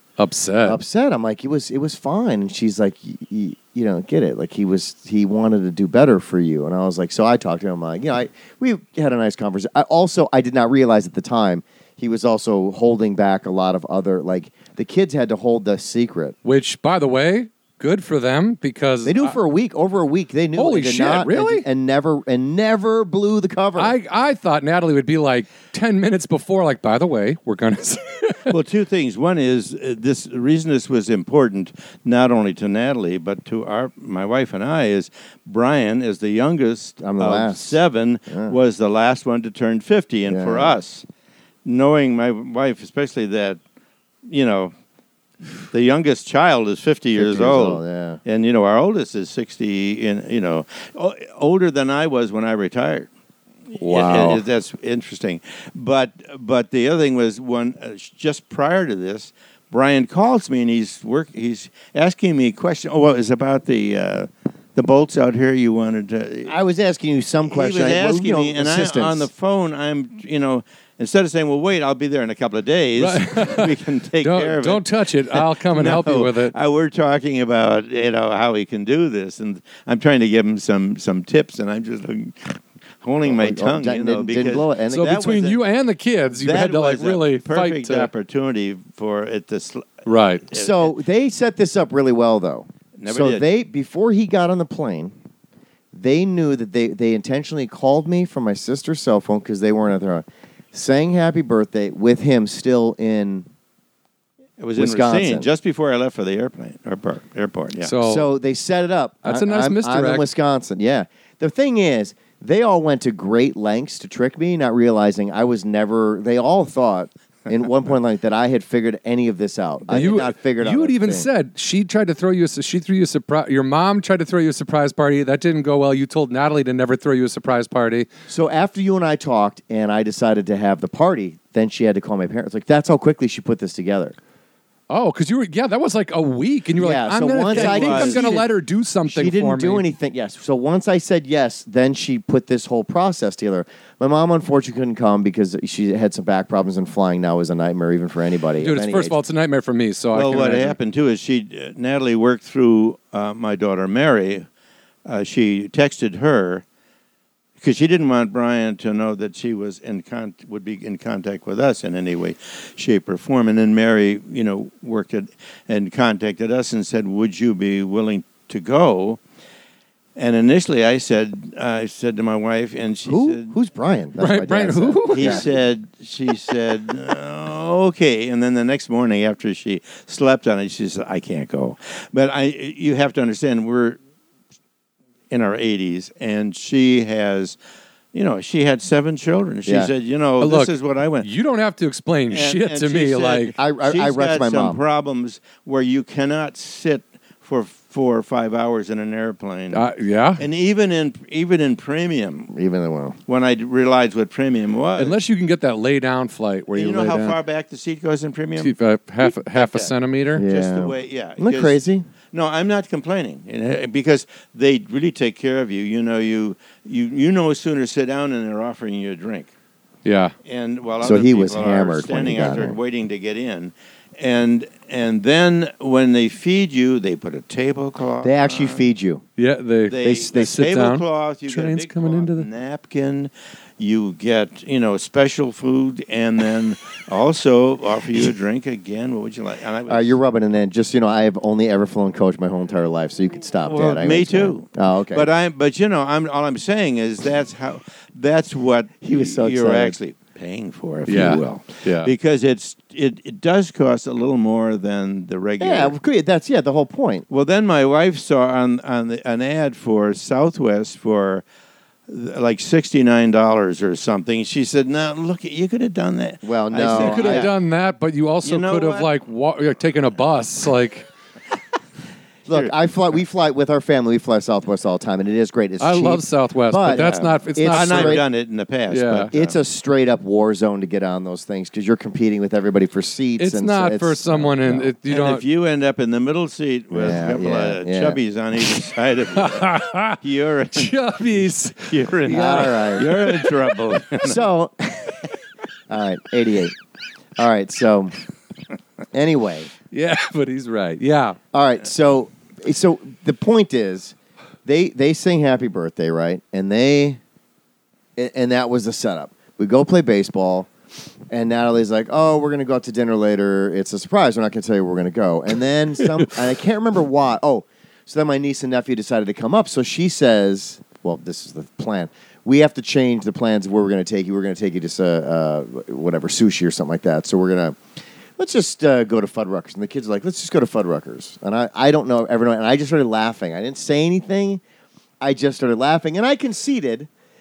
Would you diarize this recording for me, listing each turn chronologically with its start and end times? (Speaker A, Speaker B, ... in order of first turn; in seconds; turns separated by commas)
Speaker A: 0.2-0.8, Speaker B: 0.6-16.4, Speaker A: 16.4-19.4, Speaker B: 19.0-23.9, Speaker A: 20.5-21.6, Speaker A: 23.8-28.6, Speaker C: 28.5-41.0, Speaker B: 37.0-37.8, Speaker B: 38.3-38.5, Speaker B: 40.3-40.8, Speaker C: 41.6-43.6, Speaker C: 44.3-44.7, Speaker C: 45.7-53.1, Speaker B: 47.1-48.2, Speaker C: 53.7-66.5, Speaker A: 53.8-54.4, Speaker B: 66.5-69.3, Speaker C: 67.5-85.6, Speaker A: 73.0-76.5, Speaker B: 83.2-85.3, Speaker A: 84.9-88.1, Speaker C: 86.3-90.9, Speaker A: 90.0-90.4, Speaker B: 90.5-95.1, Speaker C: 93.0-93.4, Speaker B: 95.9-103.5, Speaker C: 104.6-107.9, Speaker B: 104.8-105.5, Speaker A: 107.8-108.3, Speaker B: 108.0-121.3, Speaker A: 109.2-110.2, Speaker A: 119.9-128.1, Speaker B: 128.3-134.1, Speaker A: 134.9-139.8, Speaker B: 136.8-138.4, Speaker C: 137.5-138.3, Speaker B: 139.1-149.2, Speaker A: 148.6-150.8, Speaker C: 150.1-154.5, Speaker C: 155.1-156.6, Speaker C: 157.6-169.2, Speaker C: 170.2-173.5, Speaker B: 173.1-175.5, Speaker A: 174.2-175.5, Speaker C: 175.1-184.0, Speaker C: 185.3-187.6, Speaker C: 188.1-191.3, Speaker B: 189.7-189.9, Speaker A: 190.4-193.5, Speaker C: 192.3-199.8, Speaker B: 193.6-194.8, Speaker A: 199.7-200.4, Speaker C: 200.4-202.5, Speaker B: 202.5-203.2, Speaker C: 203.3-205.1, Speaker A: 205.0-207.4, Speaker C: 206.7-211.8, Speaker A: 208.6-210.4, Speaker B: 210.3-212.1, Speaker C: 212.3-219.5, Speaker A: 220.0-220.3, Speaker C: 220.4-228.8, Speaker B: 221.0-222.8, Speaker B: 228.2-229.2, Speaker A: 229.4-232.5, Speaker C: 229.9-240.2, Speaker B: 230.0-230.5, Speaker B: 239.9-245.3, Speaker C: 243.7-255.9, Speaker B: 249.0-250.0, Speaker A: 251.1-252.1, Speaker B: 255.6-257.2, Speaker C: 257.3-261.4, Speaker C: 262.1-267.5, Speaker B: 266.4-267.5, Speaker A: 266.8-271.1, Speaker C: 268.4-269.1, Speaker B: 272.5-278.2, Speaker C: 272.5-272.7, Speaker A: 275.8-278.2, Speaker C: 276.9-279.6, Speaker A: 278.9-279.3, Speaker B: 279.3-284.9, Speaker A: 283.4-285.4, Speaker C: 285.1-294.5, Speaker B: 286.9-288.2, Speaker A: 289.3-290.2, Speaker A: 290.7-294.0, Speaker B: 292.3-293.1, Speaker B: 294.2-295.1, Speaker B: 295.9-296.7, Speaker B: 297.4-298.1, Speaker B: 299.1-299.7, Speaker A: 299.9-301.4, Speaker B: 301.5-307.2, Speaker B: 308.2-310.7, Speaker B: 311.3-327.8, Speaker A: 316.0-316.3, Speaker B: 328.4-334.6, Speaker B: 335.2-337.1